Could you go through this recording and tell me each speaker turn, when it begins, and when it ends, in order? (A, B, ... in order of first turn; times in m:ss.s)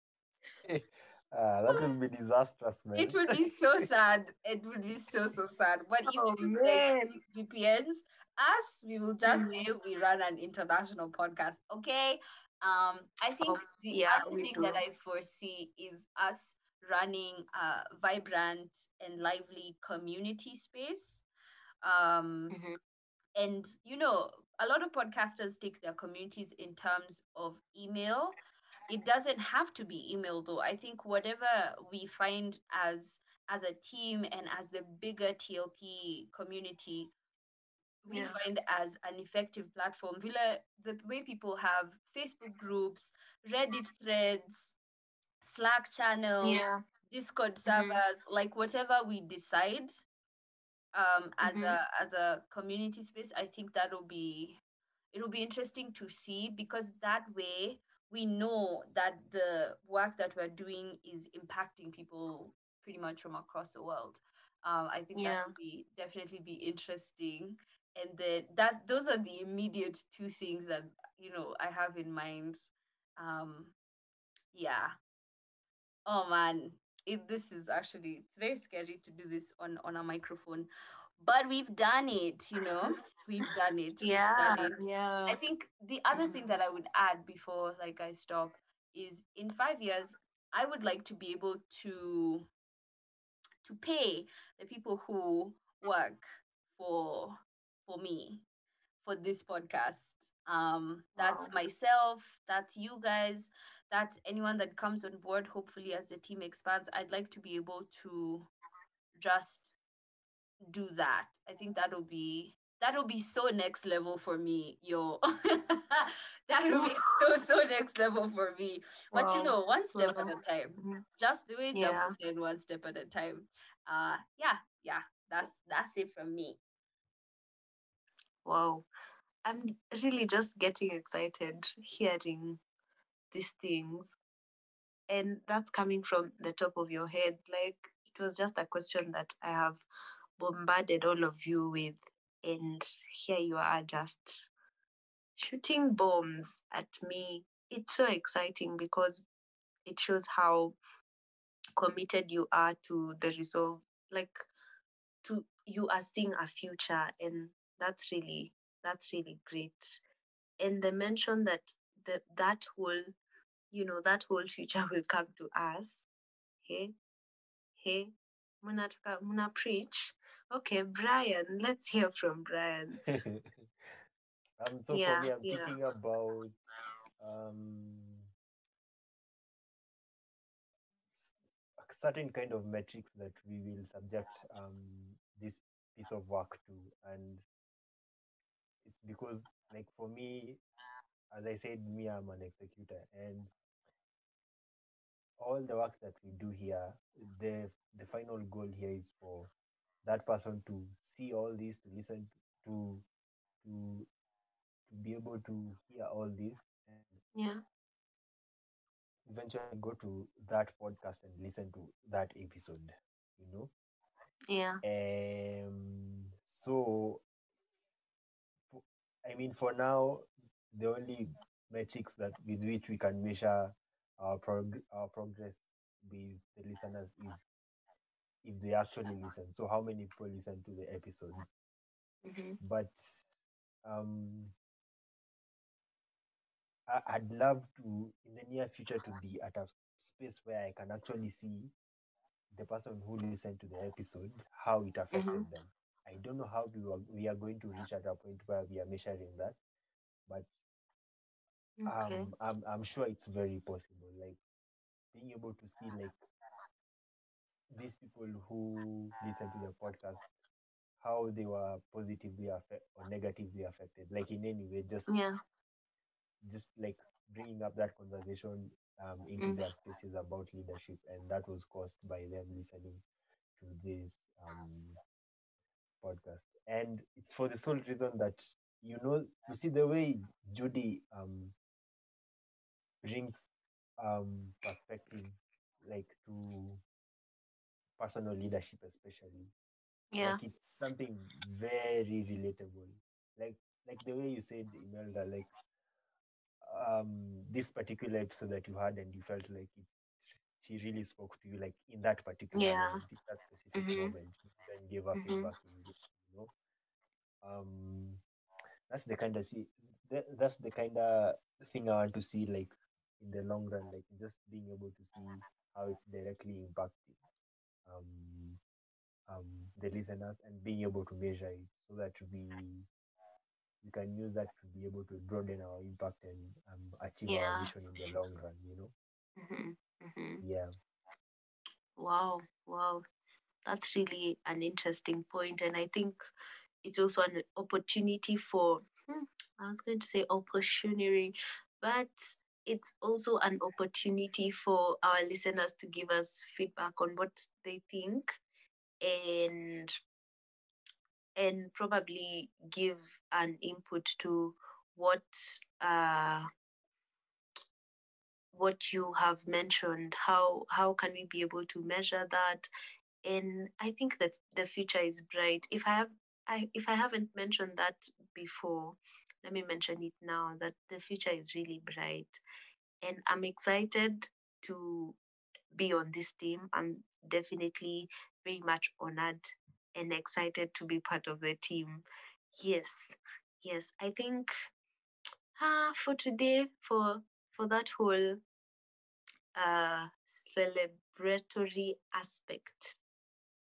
0:00.6-0:03.2 A
0:03.0-0:21.2 B
0:06.1-0:07.2 C
0:09.3-0:09.6 C
0:13.4-0:14.8 C
0:21.8-0:22.6 B
0:22.5-0:22.8 C
0:23.4-0:28.3 B
0:28.9-0:37.1 B
0:38.0-0:44.8 B
0:38.1-0:38.4 C
0:45.4-0:50.0 B
0:46.4-0:46.8 C
0:47.7-0:48.0 C
0:50.9-0:54.6 B
0:51.4-0:51.8 C
0:55.1-1:13.7 B
1:05.1-1:05.5 C
1:14.5-1:14.9 B
1:16.0-1:32.5 B
1:24.0-1:25.4 C
1:33.6-1:38.4 B
1:39.0-1:48.5 B
1:41.2-1:41.5 C
1:49.1-1:49.7 B
1:50.7-2:06.6 B
1:56.7-1:57.0 C
1:59.1-2:01.0 C
2:01.7-2:02.1 C
2:08.4-2:08.9 C
2:09.4-2:12.6 C
2:13.3-2:14.2 C
2:15.1-2:19.8 C
2:20.4-2:24.5 C
2:25.4-2:29.2 C
2:29.8-2:30.8 C
2:31.8-2:34.5 C
2:35.2-2:40.0 C
2:40.6-2:43.1 C
2:43.7-2:46.0 C
2:46.6-2:46.9 C
2:47.8-2:53.0 C
2:53.0-2:53.7 A
2:54.6-2:56.5 A
2:54.9-2:55.7 C
2:57.2-2:58.3 A
3:01.1-3:07.4 A
3:08.8-3:10.6 A
3:11.3-3:13.5 A
3:15.4-3:19.5 A
3:20.0-3:23.0 A
3:23.6-3:24.1 A
3:24.9-3:27.2 A
3:27.3-3:27.6 C
3:29.2-3:33.7 A
3:34.5-3:34.8 C
3:34.8-3:37.2 A
3:38.7-3:47.4 A
3:48.4-3:51.4 A
3:52.2-3:52.6 C
3:52.6-3:53.1 A
3:53.8-3:54.5 A
3:56.9-4:01.7 A
4:02.5-4:09.6 A
4:05.1-4:05.4 C
4:11.8-4:12.3 C
4:11.8-4:14.4 A
4:15.1-4:16.2 A
4:17.7-4:20.3 A
4:21.0-4:25.1 A
4:25.1-4:25.4 C
4:26.4-4:33.0 A
4:33.6-4:35.0 A
4:36.0-4:41.5 A
4:43.0-4:46.8 A
4:48.0-4:49.5 A
4:50.1-4:50.4 C
4:50.2-4:55.5 A
4:56.6-4:59.9 A
5:00.6-5:06.5 A
5:02.5-5:03.0 C
5:03.8-5:04.1 C
5:05.2-5:05.5 C
5:07.4-5:08.2 A
5:08.9-5:17.2 A
5:17.8-5:18.6 A
5:19.3-5:22.9 A
5:23.8-5:28.9 A
5:27.3-5:27.7 C
5:29.4-5:30.4 C
5:30.4-5:30.7 A
5:32.0-5:33.0 C
5:33.6-5:36.2 C
5:36.8-5:48.4 C
5:49.0-5:49.9 C
5:51.4-5:56.5 C
5:58.5-6:02.7 C
6:03.2-6:12.4 C
6:13.0-6:15.2 C
6:15.7-6:24.5 C
6:25.6-6:28.4 C
6:29.5-6:33.0 C